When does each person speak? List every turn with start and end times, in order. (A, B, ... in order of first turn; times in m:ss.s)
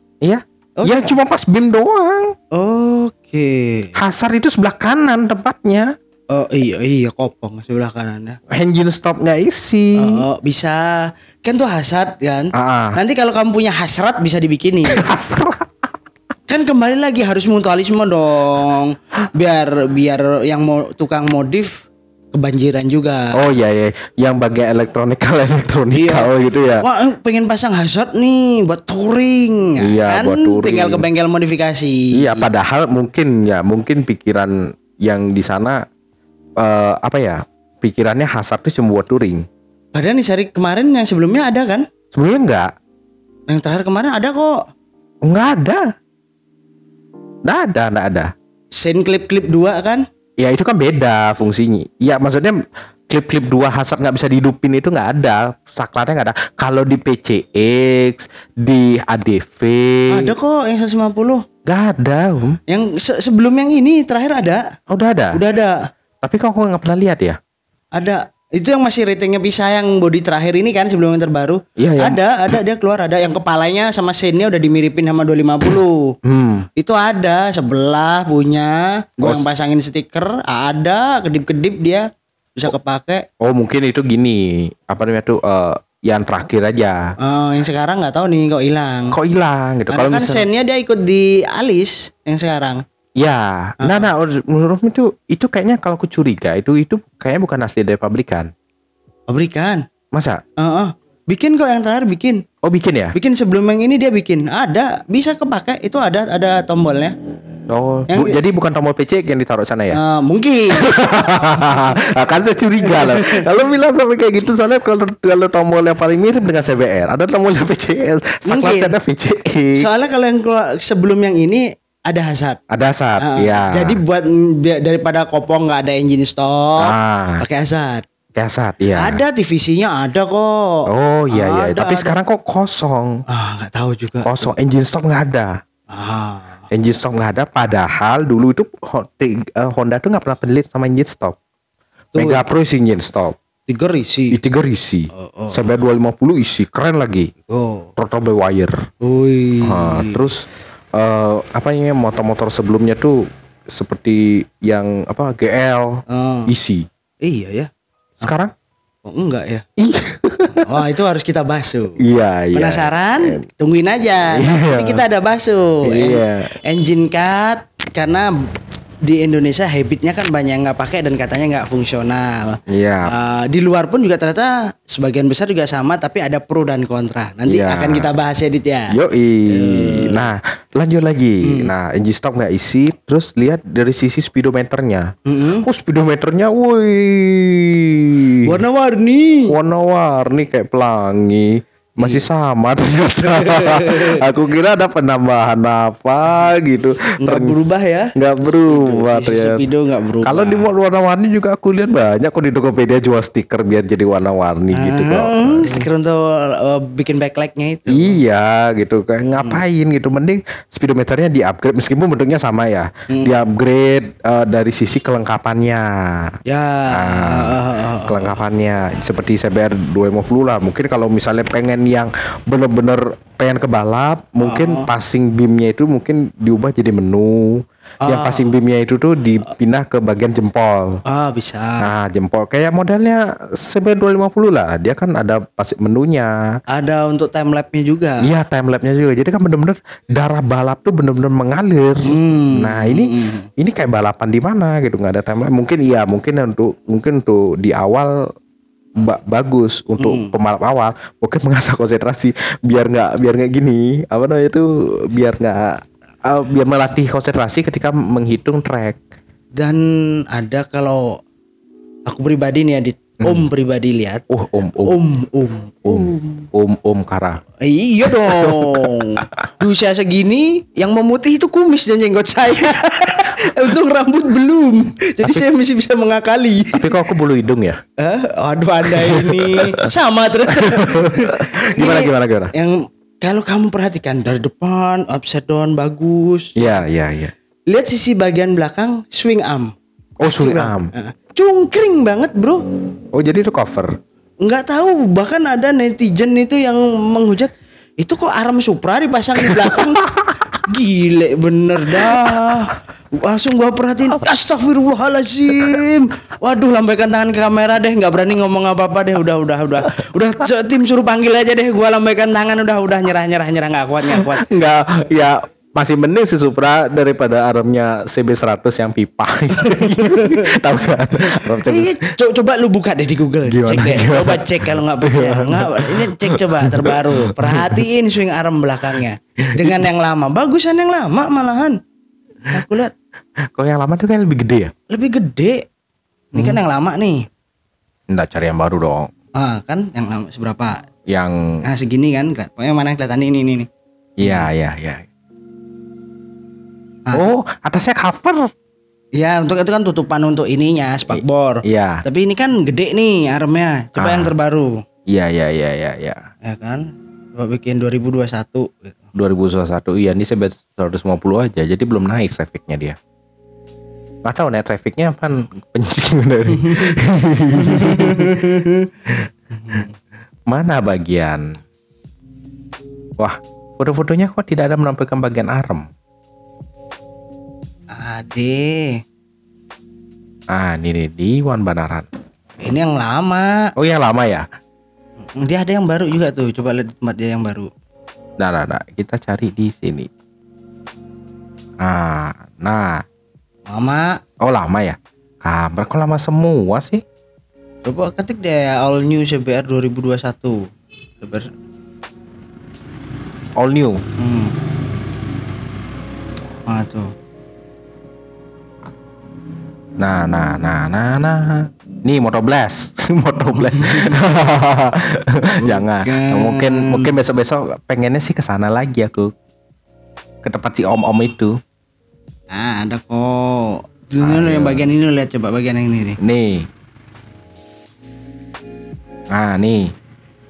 0:00.2-0:02.3 A
0:00.8-0:01.1 B
0:02.5-0:04.0 B
0:04.0-0:05.9 A
0:06.3-0:08.4 B
0:08.5-0:10.2 A
0:10.0-0:15.0 B
0:12.6-0:13.0 A
0:14.9-0:15.7 A
0:16.5-0:23.3 B
0:23.4-0:26.8 A
0:25.9-0:32.5 B
0:29.8-0:31.1 A
0:32.2-0:35.8 A
0:36.6-0:39.4 A
0:39.9-0:41.9 B
0:42.1-0:42.7 A
0:43.5-0:44.6 B
0:45.2-0:45.8 A
0:47.4-0:48.3 A
0:48.8-0:50.1 B
0:50.4-1:00.4 A
1:00.1-1:01.4 B
1:01.6-1:02.6 A
1:02.7-1:04.6 B
1:04.9-1:05.4 A
1:05.3-1:05.9 B
1:06.2-1:07.4 A
1:08.0-1:16.2 B
1:11.8-1:12.5 A
1:16.2-1:16.7 A
1:16.8-1:23.2 B
1:23.4-1:27.0 A
1:27.2-1:29.2 B
1:29.1-1:30.5 A
1:29.9-1:32.8 B
1:33.2-1:38.5 A
1:33.8-1:34.1 B
1:39.3-1:39.8 B
1:40.1-1:40.4 A
1:40.6-1:42.4 B
1:42.6-1:43.2 A
1:43.2-1:47.1 B
1:47.7-1:50.0 A
1:48.1-1:48.4 B
1:49.9-1:50.9 B
1:50.8-1:59.9 A
1:52.8-1:53.4 B
1:58.5-1:58.9 B
1:59.8-2:02.6 B
2:02.7-2:04.0 A
2:03.2-2:08.0 B
2:06.8-2:07.4 A
2:08.4-2:09.2 A
2:09.0-2:12.1 B
2:10.9-2:13.2 A
2:13.3-2:14.5 B
2:14.2-2:15.5 A
2:15.9-2:16.6 B
2:16.7-2:21.4 A
2:22.1-2:22.4 B
2:22.2-2:23.4 A
2:23.7-2:24.4 B
2:24.3-2:27.3 A
2:25.1-2:25.7 B
2:27.5-2:27.9 B
2:28.0-2:28.8 A
2:29.0-2:30.2 B
2:29.6-2:36.9 A
2:36.1-2:36.5 B
2:37.2-2:37.7 B
2:38.2-2:38.5 A
2:39.1-2:39.6 B
2:39.8-2:40.7 A
2:40.6-2:42.0 B
2:42.0-2:43.4 A
2:42.5-2:48.3 B
2:44.3-2:45.0 A
2:45.8-2:46.5 A
2:49.0-3:00.3 B
2:52.7-2:53.1 A
2:57.5-2:58.1 A
2:58.9-3:05.1 A
3:01.4-3:01.7 B
3:05.3-3:05.7 B
3:05.6-3:08.5 A
3:08.4-3:09.6 B
3:09.5-3:17.6 A
3:12.0-3:12.2 B
3:13.3-3:14.2 B
3:17.2-3:18.1 B
3:18.2-3:19.6 A
3:18.7-3:20.7 B
3:20.2-3:25.9 A
3:24.7-3:28.2 B
3:27.9-3:36.4 A
3:36.5-3:38.4 B
3:36.9-3:51.0 A
3:44.4-3:44.9 B
3:48.0-3:48.5 B
3:51.1-3:51.9 B
3:51.8-3:56.5 A
3:56.7-3:58.3 B
3:58.2-4:08.3 A
4:02.0-4:03.5 B
4:09.0-4:19.0 A
4:10.0-4:10.4 B
4:19.6-4:21.2 B
4:22.1-4:24.2 B
4:24.3-4:25.0 A
4:24.9-4:26.5 B
4:25.9-4:27.4 A
4:27.6-4:36.9 B
4:28.1-4:28.8 A
4:36.7-4:37.8 A
4:38.0-4:46.6 B
4:38.9-4:39.8 A
4:40.5-4:42.5 A
4:46.6-4:47.3 A
4:47.7-4:49.7 B
4:50.2-4:50.9 A
4:50.3-4:52.6 B
4:53.1-4:53.9 A
4:54.4-5:00.1 B
4:59.5-5:00.3 A
5:00.6-5:14.5 B
5:02.0-5:02.6 A
5:14.1-5:22.0 A
5:19.6-5:31.8 B
5:23.5-5:27.8 A
5:29.6-5:29.8 A
5:32.5-5:32.9 B
5:33.5-5:34.7 A
5:34.9-5:35.6 B
5:36.3-5:36.6 A
5:36.3-5:37.2 B
5:38.1-5:39.1 A
5:39.4-5:40.8 B
5:41.1-5:41.6 A
5:41.6-5:43.7 B
5:44.2-5:45.0 A
5:47.1-5:48.5 A
5:49.2-5:54.8 B
5:51.1-5:52.0 A
5:54.0-5:54.3 A
5:55.1-5:56.2 A
5:56.4-5:59.0 B
5:59.2-6:03.0 A
6:04.2-6:08.5 A
6:07.5-6:08.9 B
6:09.6-6:09.9 B
6:10.5-6:11.6 A
6:13.2-6:15.9 A
6:17.9-6:19.0 B
6:20.5-6:22.1 A
6:22.6-6:23.7 B
6:23.8-6:24.4 A
6:25.4-6:27.7 B
6:28.4-6:30.1 A
6:31.8-6:33.0 A
6:33.7-6:34.2 B
6:34.4-6:37.0 A
6:37.8-6:40.6 B
6:41.2-6:41.5 B
6:43.6-6:44.0 A
6:44.2-6:44.6 B
6:46.7-6:47.1 B
6:50.0-6:59.3 A
6:53.6-6:54.2 B
6:55.6-6:57.1 B
7:00.4-7:01.6 A
7:02.5-7:06.2 B
7:04.2-7:04.9 A
7:06.2-7:06.7 A
7:09.3-7:09.9 A